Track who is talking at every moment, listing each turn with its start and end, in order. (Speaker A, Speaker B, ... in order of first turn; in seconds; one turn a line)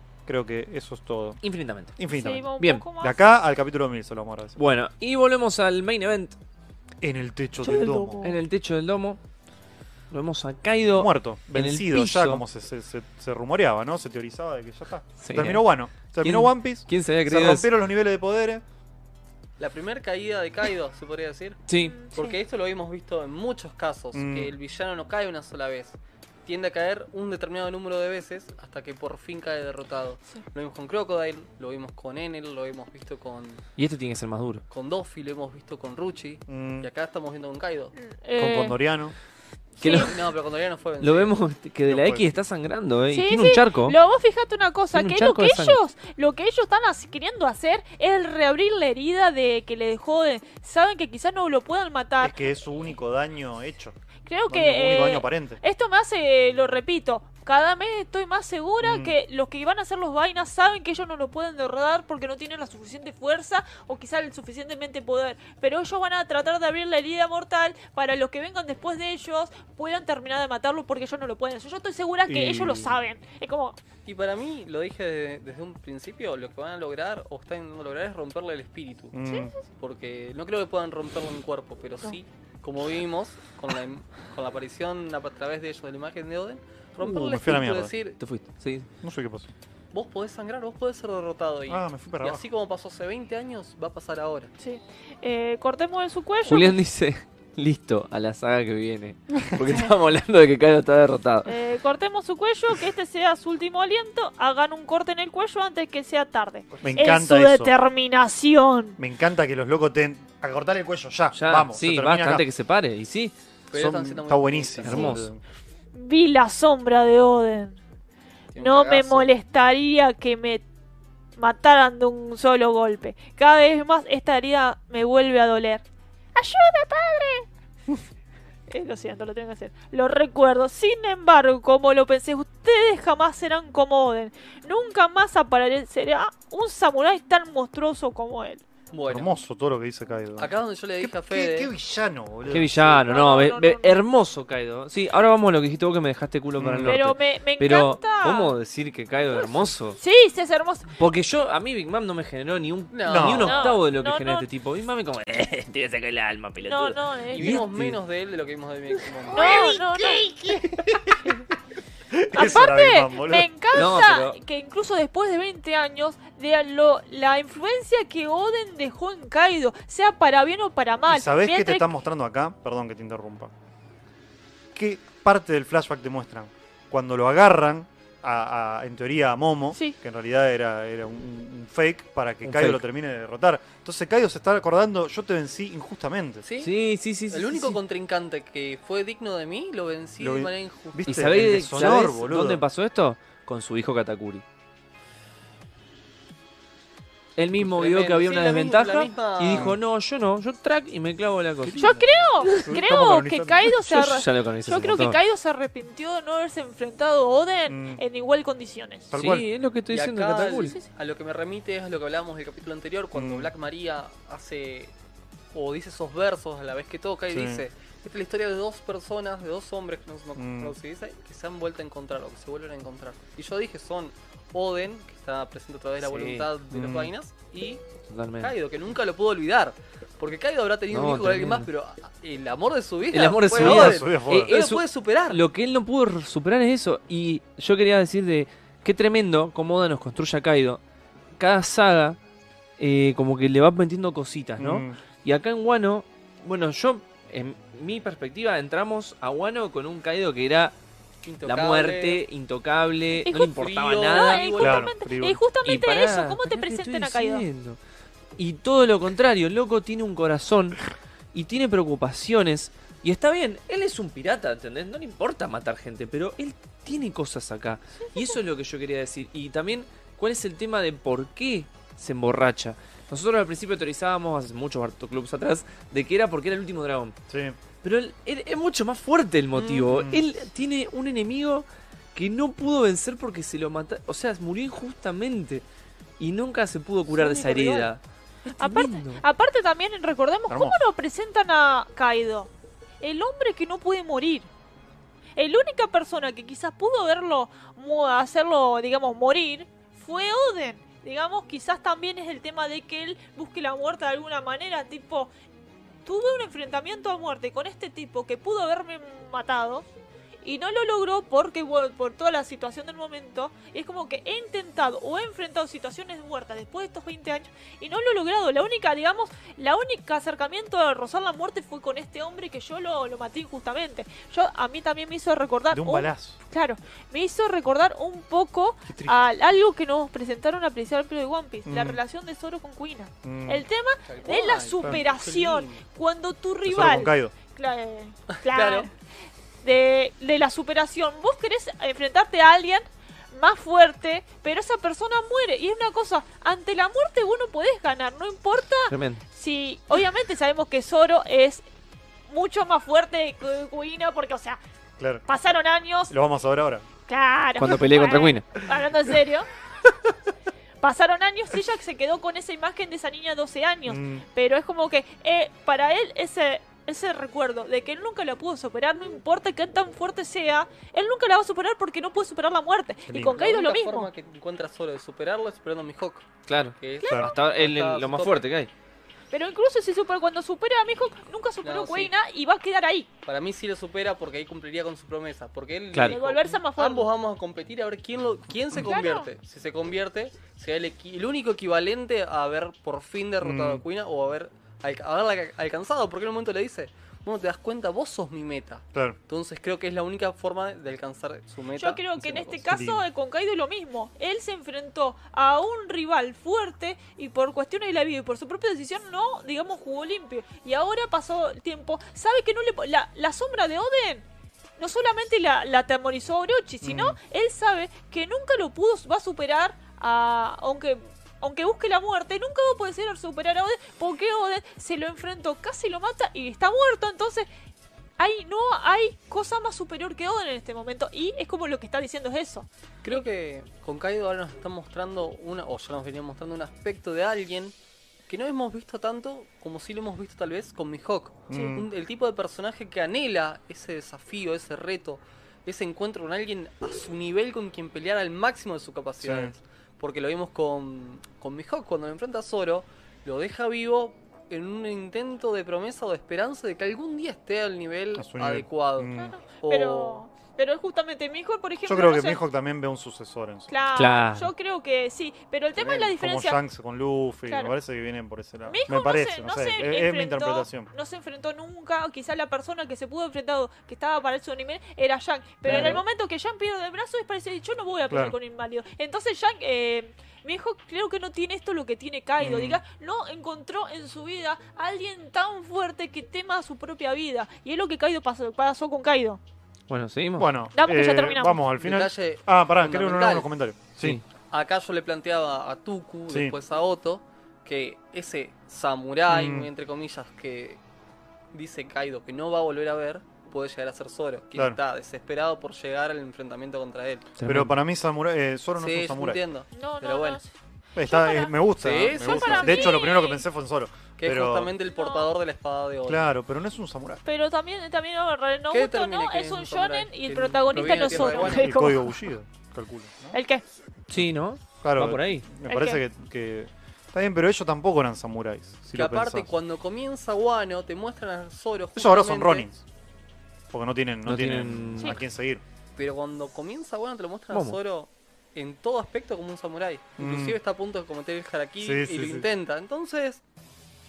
Speaker A: 0.3-1.4
Speaker B: 1.4-2.0
Speaker A: 2.0-4.6
Speaker C: 2.1-3.2
Speaker B: 2.6-2.8
Speaker B: 4.6-6.4
Speaker A: 7.0-8.3
Speaker C: 7.6-8.4
Speaker B: 8.2-9.2
Speaker B: 10.1-12.4
Speaker A: 10.9-18.6
Speaker B: 15.2-15.7
Speaker B: 16.2-17.7
Speaker D: 19.6-21.6
Speaker B: 21.7-22.0
Speaker C: 21.8-22.4
Speaker D: 22.1-33.6
Speaker A: 24.1-24.5
Speaker B: 33.8-34.6
Speaker D: 34.7-37.9
Speaker A: 36.5-36.9
Speaker C: 38.0-38.8
Speaker A: 38.4-39.1
Speaker C: 39.8-40.2
Speaker B: 39.8-40.2
Speaker D: 39.8-41.3
Speaker B: 41.0-44.0
Speaker A: 41.9-42.4
Speaker C: 43.1-52.4
Speaker B: 44.9-45.8
Speaker A: 52.2-54.0
Speaker C: 54.3-73.8
Speaker A: 54.5-55.6
Speaker A: 58.8-59.2
Speaker A: 72.3-72.9
Speaker D: 74.1-79.2
Speaker A: 79.1-79.5
Speaker C: 79.2-79.7
Speaker D: 79.8-88.2
Speaker A: 87.0-87.9
Speaker B: 88.2-88.9
Speaker A: 89.0-89.5
Speaker D: 89.9-94.5
Speaker A: 91.7-92.4
Speaker C: 94.6-96.8
Speaker B: 96.5-101.5
Speaker C: 101.5-109.0
Speaker A: 106.8-107.7
Speaker A: 109.0-112.5
Speaker B: 111.3-113.3
Speaker D: 113.7-115.2
Speaker A: 113.7-115.4
Speaker B: 114.8-115.3
Speaker C: 115.9-117.8
Speaker D: 118.5-119.3
Speaker C: 118.6-120.6
Speaker C: 121.4-125.8
Speaker C: 126.3-127.5
Speaker C: 128.7-138.6
Speaker D: 138.9-139.3
Speaker A: 139.1-143.1
Speaker D: 140.4-141.7
Speaker B: 142.5-150.0
Speaker C: 143.1-144.0
Speaker A: 146.6-147.0
Speaker C: 146.8-148.6
Speaker C: 150.0-150.9
Speaker B: 151.0-158.0
Speaker D: 152.9-153.8
Speaker A: 153.1-153.6
Speaker C: 153.4-154.5
Speaker C: 156.7-157.6
Speaker D: 157.3-160.8
Speaker C: 159.3-160.5
Speaker B: 159.3-159.7
Speaker A: 162.1-163.8
Speaker C: 162.3-171.9
Speaker B: 163.7-164.4
Speaker A: 171.1-173.5
Speaker A: 174.7-186.4
Speaker B: 182.4-182.8
Speaker D: 186.4-186.7
Speaker B: 186.6-187.8
Speaker D: 187.3-191.2
Speaker A: 190.2-192.6
Speaker B: 191.1-194.4
Speaker B: 197.4-201.9
Speaker D: 197.6-199.7
Speaker A: 199.5-199.8
Speaker A: 201.6-203.7
Speaker C: 201.8-209.1
Speaker B: 203.8-205.2
Speaker A: 207.7-208.0
Speaker A: 209.1-209.5
Speaker B: 209.2-210.8
Speaker D: 209.9-214.9
Speaker A: 213.1-213.5
Speaker D: 215.5-227.8
Speaker A: 217.3-217.6
Speaker A: 220.4-220.8
Speaker B: 226.0-226.5
Speaker A: 226.7-227.1
Speaker B: 228.1-228.5
Speaker D: 228.4-235.4
Speaker B: 230.9-231.7
Speaker B: 233.1-240.8
Speaker A: 233.5-234.5
Speaker B: 241.4-242.2
Speaker B: 242.8-250.8
Speaker A: 244.6-245.0
Speaker D: 251.2-252.2
Speaker B: 251.4-254.5
Speaker C: 253.3-253.5
Speaker D: 253.5-254.9
Speaker C: 254.1-257.4
Speaker A: 254.6-255.4
Speaker B: 255.7-257.8
Speaker B: 258.4-260.8
Speaker B: 261.3-277.2
Speaker A: 277.3-277.6
Speaker B: 277.8-285.6
Speaker D: 279.5-279.9
Speaker A: 279.9-280.2
Speaker B: 286.2-289.2
Speaker D: 287.1-287.9
Speaker C: 288.6-292.5
Speaker A: 290.5-290.8
Speaker C: 293.0-294.5
Speaker C: 295.4-305.3
Speaker C: 306.1-309.9
Speaker C: 310.4-338.9
Speaker A: 325.7-326.4
Speaker A: 328.9-329.1
Speaker A: 331.7-332.0
Speaker A: 333.2-333.6
Speaker D: 334.1-335.8
Speaker A: 336.7-337.3
Speaker D: 338.3-338.9
Speaker C: 339.6-351.6
Speaker B: 348.9-349.2
Speaker C: 352.3-354.6
Speaker A: 355.0-355.2
Speaker C: 355.3-356.1
Speaker A: 356.1-356.9
Speaker C: 357.1-359.5
Speaker B: 357.6-358.6
Speaker C: 360.8-374.1
Speaker A: 363.9-364.2
Speaker D: 373.1-376.3
Speaker B: 376.5-378.7
Speaker D: 376.8-378.4
Speaker A: 377.0-377.3
Speaker C: 379.3-383.1
Speaker D: 381.6-382.1
Speaker D: 383.2-402.6
Speaker B: 385.9-386.2
Speaker C: 386.1-387.1
Speaker C: 388.8-389.3
Speaker A: 393.4-393.8
Speaker C: 401.8-414.2
Speaker A: 402.7-403.0
Speaker C: 414.8-427.5
Speaker A: 416.8-417.2
Speaker C: 428.2-433.2
Speaker D: 433.0-437.8
Speaker D: 438.3-460.2
Speaker A: 441.5-441.9
Speaker A: 449.2-449.5
Speaker A: 458.2-459.4
Speaker C: 459.1-462.4
Speaker A: 461.9-463.7
Speaker C: 463.7-466.6
Speaker B: 463.9-464.5
Speaker D: 465.8-466.1
Speaker A: 466.1-470.9
Speaker C: 467.5-467.7
Speaker C: 468.7-489.4
Speaker A: 475.7-476.0
Speaker D: 475.7-476.0
Speaker A: 478.1-478.4
Speaker A: 482.4-482.8
Speaker B: 489.9-490.5
Speaker A: 490.4-494.2
Speaker C: 490.8-491.6
Speaker D: 491.8-493.5
Speaker D: 494.5-500.8
Speaker A: 496.3-496.5
Speaker A: 499.3-499.7
Speaker D: 501.5-507.3
Speaker B: 507.4-507.8
Speaker A: 507.5-509.4
Speaker D: 508.8-510.4
Speaker C: 509.7-513.5
Speaker A: 511.0-514.7
Speaker D: 511.8-513.1
Speaker D: 514.2-516.2
Speaker C: 514.9-515.3
Speaker A: 516.0-517.2
Speaker C: 517.2-522.2
Speaker D: 518.7-521.9
Speaker A: 520.9-523.4
Speaker C: 523.3-523.6
Speaker B: 524.1-525.5
Speaker A: 524.8-529.5
Speaker C: 525.7-526.0
Speaker D: 528.9-532.7
Speaker A: 532.0-532.8
Speaker A: 533.7-535.6
Speaker B: 534.3-535.2
Speaker D: 536.0-543.4
Speaker B: 537.5-537.8
Speaker A: 540.2-540.6
Speaker A: 541.8-542.5